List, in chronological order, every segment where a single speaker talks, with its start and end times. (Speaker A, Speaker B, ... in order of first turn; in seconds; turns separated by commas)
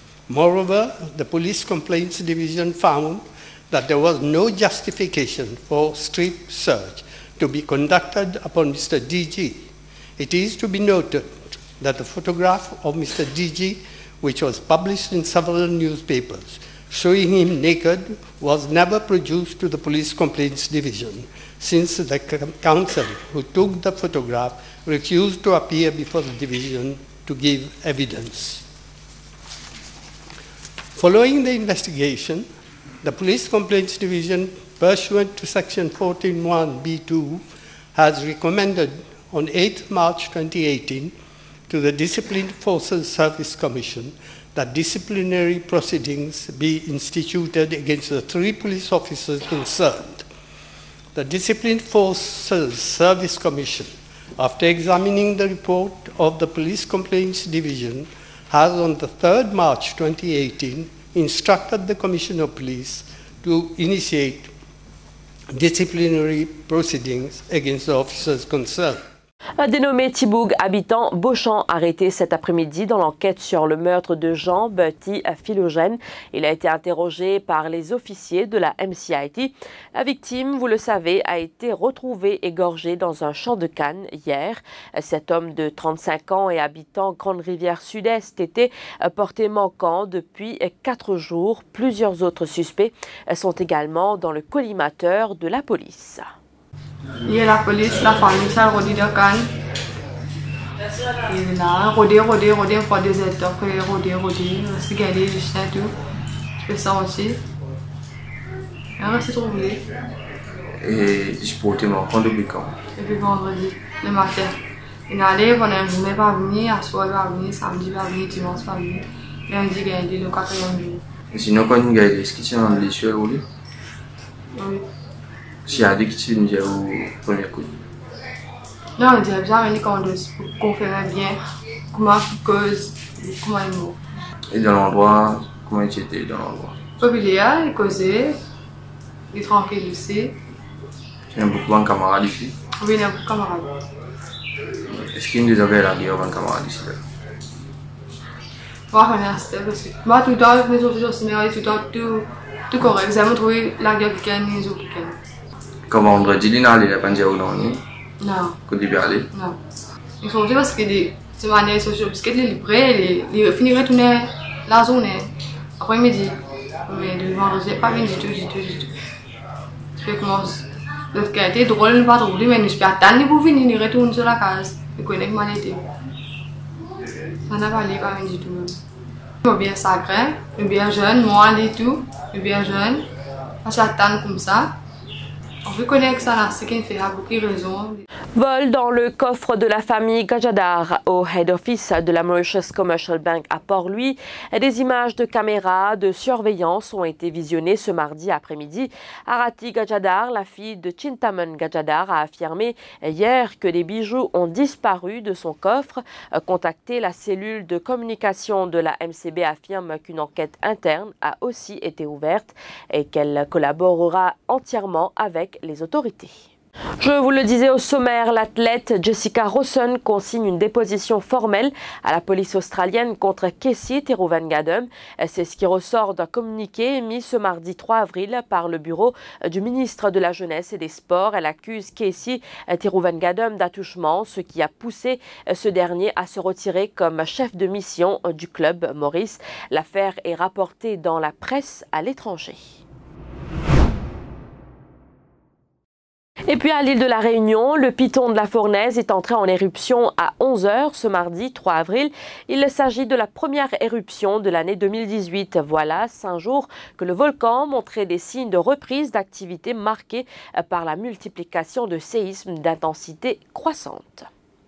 Speaker A: 0.3-9.7, Speaker A: 10.2-28.6, Speaker A: 30.9-32.5, Speaker A: 33.0-37.4, Speaker A: 37.9-41.1, Speaker A: 41.7-50.3, Speaker A: 51.1-64.5, Speaker A: 65.5-69.0, Speaker B: 69.6-96.3, Speaker C: 97.3-99.5, Speaker C: 101.3-105.9, Speaker C: 106.6-107.4, Speaker C: 109.0-109.8, Speaker D: 110.8-112.8, Speaker C: 113.0-114.5, Speaker C: 115.1-121.0, Speaker D: 121.3-123.5, Speaker C: 124.6-124.8, Speaker D: 125.7-127.8, Speaker C: 129.0-131.4, Speaker C: 131.9-134.0, Speaker D: 134.5-136.8, Speaker C: 137.0-138.4, Speaker C: 139.3-140.4, Speaker D: 141.3-142.6, Speaker C: 142.8-143.7, Speaker D: 144.9-147.0, Speaker C: 148.9-155.2, Speaker D: 155.9-157.8, Speaker C: 158.2-158.6, Speaker D: 158.7-159.3, Speaker C: 159.3-159.6, Speaker C: 160.2-168.9, Speaker C: 170.0-175.8, Speaker C: 177.4-178.8, Speaker C: 179.4-183.1, Speaker C: 183.6-184.8, Speaker C: 185.6-188.1, Speaker B: 188.3-216.4, Speaker B: 217.0-242.6, Speaker B: 246.5-264.3